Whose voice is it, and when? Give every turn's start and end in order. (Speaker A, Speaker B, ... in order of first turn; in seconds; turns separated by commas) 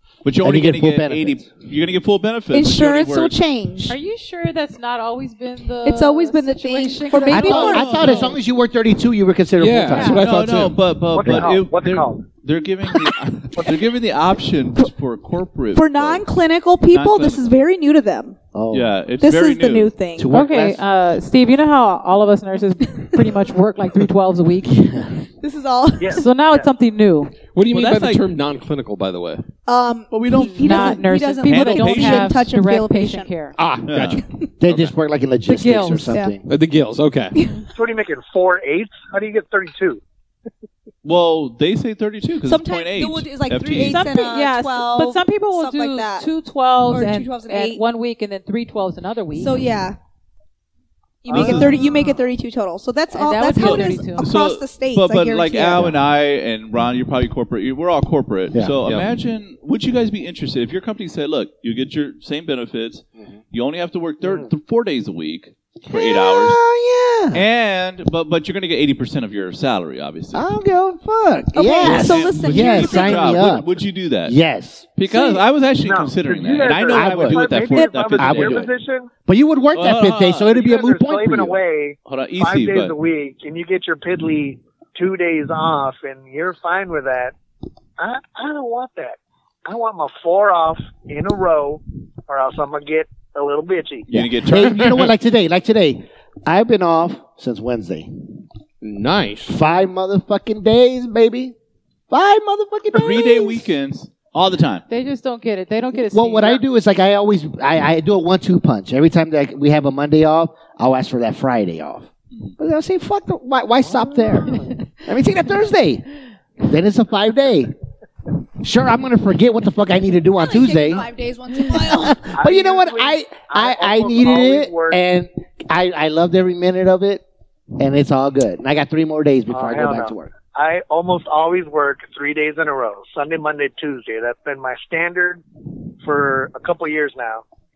Speaker A: 0.2-3.4, Speaker B: 0.4-1.5, Speaker C: 2.5-4.0, Speaker D: 3.9-8.3, Speaker C: 5.8-8.2, Speaker B: 7.3-10.7, Speaker A: 7.3-8.3, Speaker E: 9.6-10.8, Speaker D: 9.9-10.2, Speaker A: 10.1-17.5, Speaker F: 11.1-12.2, Speaker C: 15.7-18.4, Speaker B: 18.5-18.9, Speaker A: 18.7-19.9, Speaker C: 19.2-20.3, Speaker B: 20.2-20.8, Speaker D: 20.3-25.1, Speaker B: 24.7-25.1, Speaker C: 25.4-26.2, Speaker F: 26.0-26.7, Speaker D: 26.1-27.4, Speaker E: 27.6-29.5, Speaker A: 27.7-28.2, Speaker C: 29.7-33.3, Speaker A: 30.1-32.4, Speaker D: 30.6-33.6, Speaker E: 33.6-34.3, Speaker A: 33.9-34.9, Speaker B: 34.6-36.5, Speaker D: 35.5-36.1, Speaker C: 36.1-36.4, Speaker E: 36.5-37.4, Speaker C: 37.4-37.7, Speaker F: 37.7-40.0, Speaker A: 41.0-44.0, Speaker C: 42.5-46.3, Speaker D: 43.8-49.6, Speaker C: 46.9-47.8, Speaker C: 49.4-50.0, Speaker C: 51.2-55.9, Speaker A: 51.3-51.8, Speaker F: 51.3-51.8, Speaker D: 51.9-52.1, Speaker D: 53.1-54.3, Speaker A: 53.5-66.6, Speaker E: 58.8-59.1, Speaker B: 65.9-67.5, Speaker A: 67.3-70.5, Speaker B: 70.3-73.7, Speaker C: 71.5-73.5, Speaker A: 71.8-74.4, Speaker B: 74.3-74.9, Speaker A: 75.0-78.7, Speaker F: 75.8-79.1, Speaker B: 76.9-77.6, Speaker B: 78.2-78.7, Speaker B: 79.3-81.6, Speaker A: 79.8-80.5, Speaker F: 80.5-87.3, Speaker A: 82.1-83.0, Speaker F: 88.0-94.1, Speaker A: 94.1-95.1, Speaker B: 94.1-98.2, Speaker E: 98.8-99.6, Speaker B: 99.5-101.5, Speaker B: 102.1-103.7, Speaker A: 102.9-104.9, Speaker D: 104.9-106.6, Speaker B: 106.1-116.1, Speaker F: 114.4-114.7, Speaker B: 116.6-117.7, Speaker B: 118.6-121.1, Speaker C: 120.4-122.3, Speaker B: 121.7-127.2, Speaker F: 122.3-125.0, Speaker B: 127.8-130.3, Speaker F: 129.5-135.4, Speaker F: 136.0-137.4